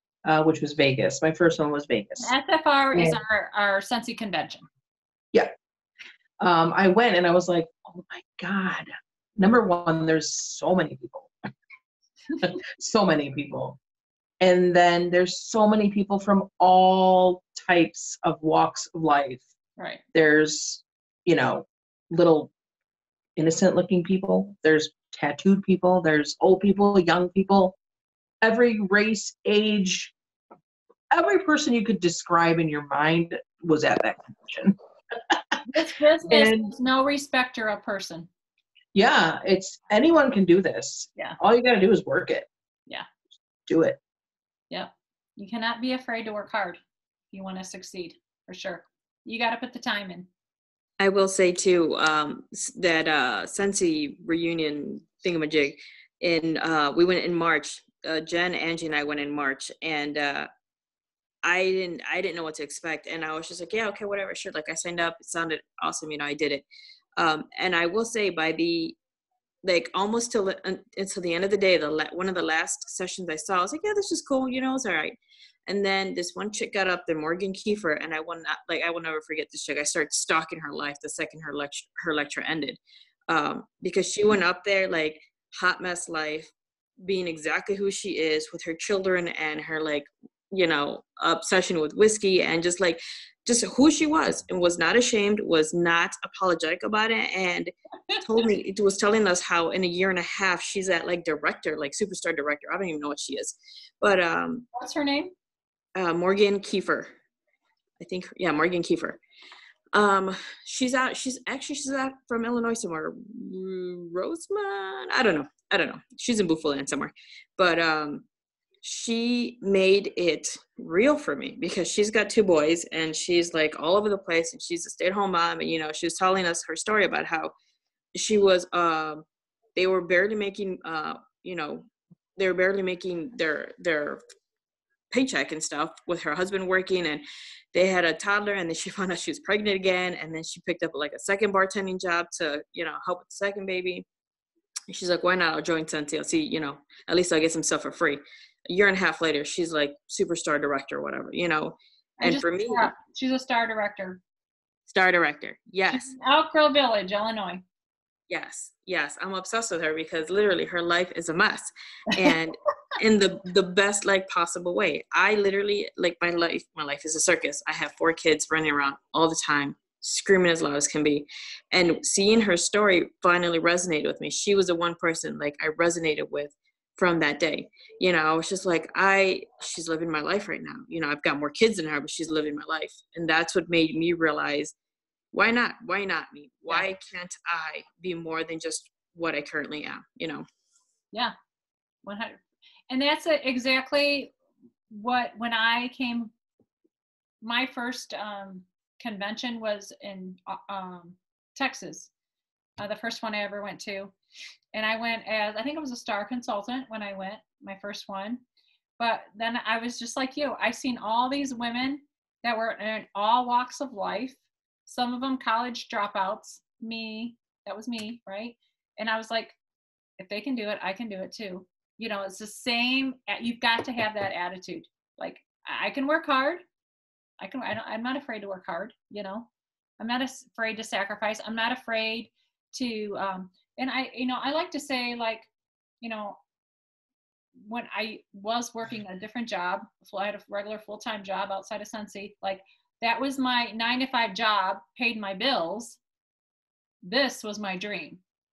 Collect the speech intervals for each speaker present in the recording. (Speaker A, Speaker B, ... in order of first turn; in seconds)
Speaker A: 0.2-2.3, 2.9-3.2, 6.4-11.3, 12.4-13.8, 14.4-19.5, 20.1-22.5, 23.4-27.8, 28.4-30.1, 31.1-34.8, 36.3-36.7, 38.9-42.5, 43.7-44.0
Speaker B: 2.2-4.7, 19.8-20.0, 35.7-38.3, 44.7-46.8, 47.3-50.3, 104.7-105.3, 152.2-154.2, 155.9-157.6, 192.0-194.3, 194.9-196.3, 197.4-202.1, 202.8-204.1, 204.7-208.4, 209.0-219.6, 220.2-226.6, 227.4-229.5, 230.0-235.5, 236.0-236.4, 237.6-246.0, 247.0-248.2
Speaker C: 51.0-60.5, 61.4-66.7, 67.2-69.0, 69.6-104.7, 106.0-107.1, 108.0-109.2, 109.9-118.2, 118.8-127.5, 128.2-134.2, 135.1-144.1, 144.9-152.9, 154.9-156.2, 158.3-184.7, 185.3-190.5